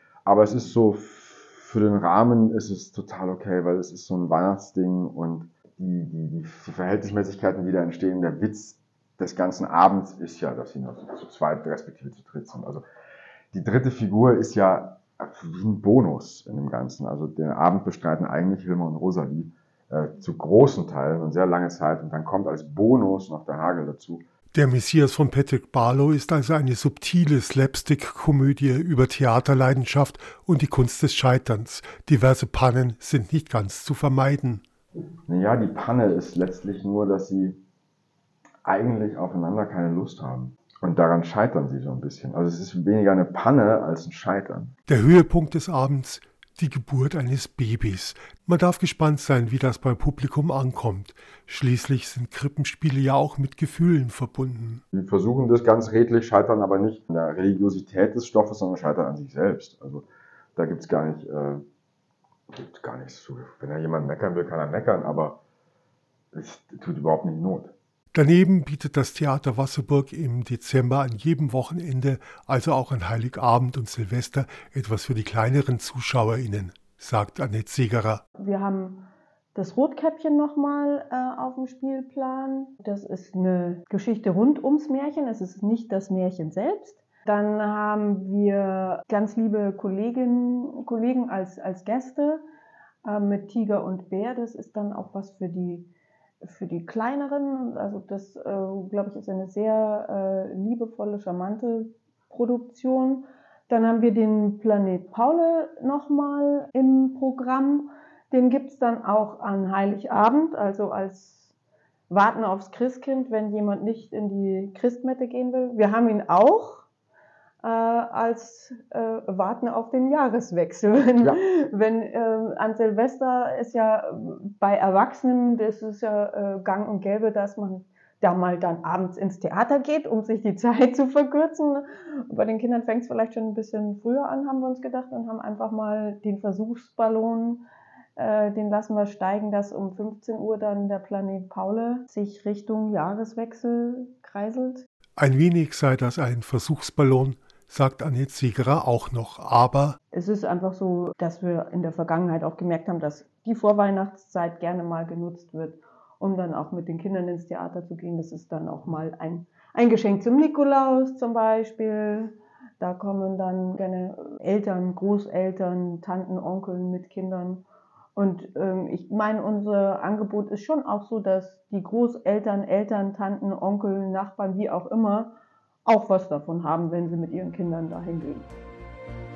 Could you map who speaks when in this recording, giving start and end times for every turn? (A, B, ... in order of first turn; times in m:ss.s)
0:00.3-0:12.8 A
0:13.5-0:24.2 A
0:24.5-0:34.6 B
0:35.3-0:37.6 A
0:38.6-0:44.7 A
0:44.9-0:54.8 B
0:54.9-1:01.6 A
1:02.5-1:05.4 A
1:06.3-1:07.7 A
1:08.1-1:18.2 B
1:18.4-1:32.4 C
1:33.0-1:35.9 C
1:36.4-1:51.5 C
1:52.1-1:56.9 C
1:57.6-2:17.6 C
2:18.2-2:24.9 C
2:25.2-2:30.0 B
2:30.1-2:58.5 C